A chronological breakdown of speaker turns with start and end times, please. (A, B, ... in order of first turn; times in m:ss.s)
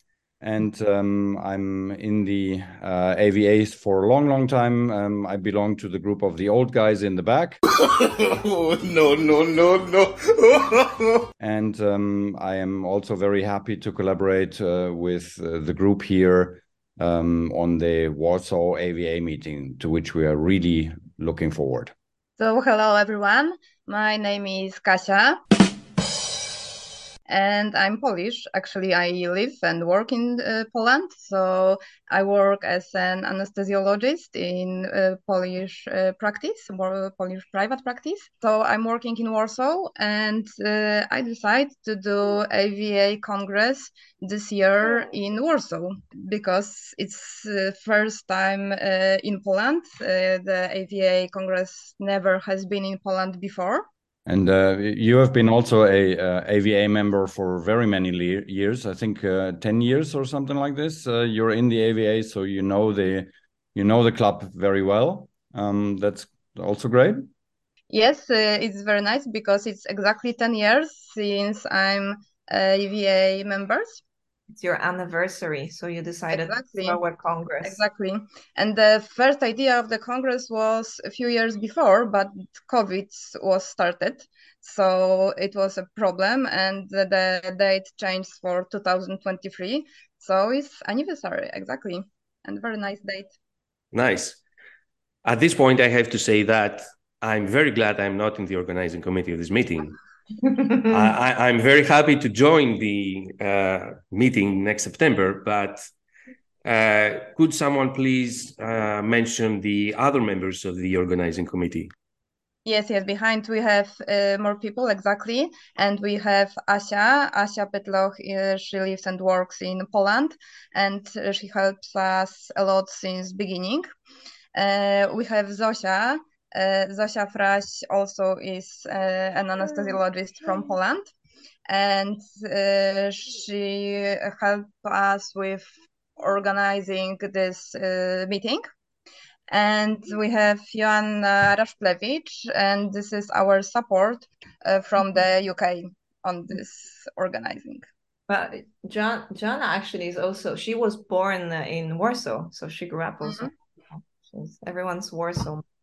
0:00.4-0:07.6 A
0:07.7-0:11.2 B
0:11.4-0:21.9 A
0:22.4-0:25.4 C
0:27.3-0:53.8 C
0:54.2-1:07.3 A
1:07.9-1:14.0 C
1:14.5-1:17.8 D
1:16.3-1:17.0 C
1:17.6-1:33.3 C
1:33.9-1:34.4 E
1:35.2-1:40.0 E
1:40.4-1:41.1 D
1:40.9-1:45.8 E
1:46.6-1:51.9 E
1:52.6-2:03.9 C
2:04.5-2:11.1 C
2:11.7-2:18.6 C
2:19.5-2:27.9 C
2:28.3-2:35.6 D